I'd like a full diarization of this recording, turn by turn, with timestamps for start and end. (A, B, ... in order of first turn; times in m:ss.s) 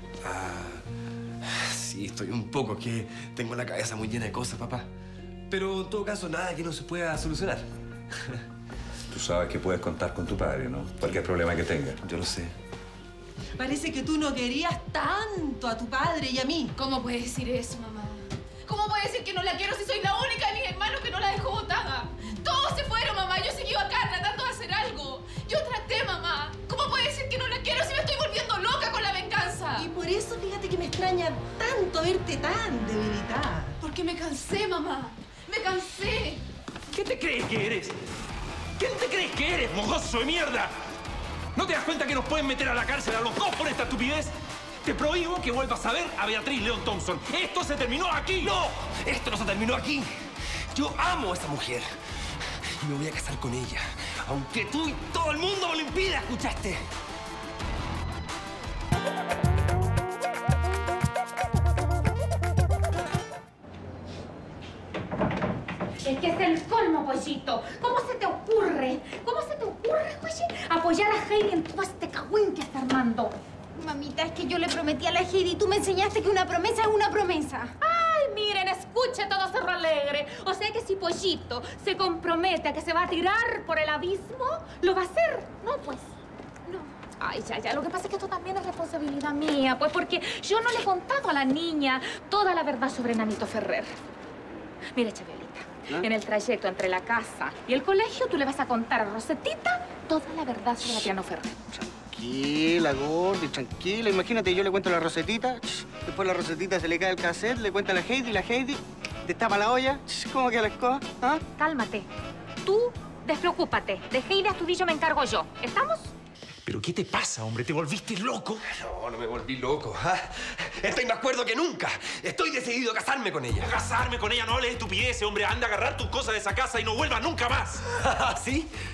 0:00.2-0:00.8 A
0:01.4-0:04.9 A
0:05.5-0:07.7 A
0:09.1-0:12.5 B
0:13.6-0:16.7 C
0:16.8-0:29.9 D
0:29.8-0:33.8 C
0:33.8-0:36.4 D
0:36.9-0:38.0 E
0:38.8-0:40.7 E
0:41.6-0:48.5 E
0:48.4-0:51.9 A
0:52.4-0:56.8 A
1:06.0-1:13.4 F
1:13.8-1:17.7 G
1:17.8-1:26.1 F
1:27.2-1:34.0 F
1:35.0-1:41.6 F
1:41.8-1:51.4 H
1:51.6-1:52.1 F
1:52.6-1:56.1 F
1:56.6-1:58.6 E
1:58.7-2:03.7 A
2:03.6-2:07.8 E
2:08.0-2:08.7 A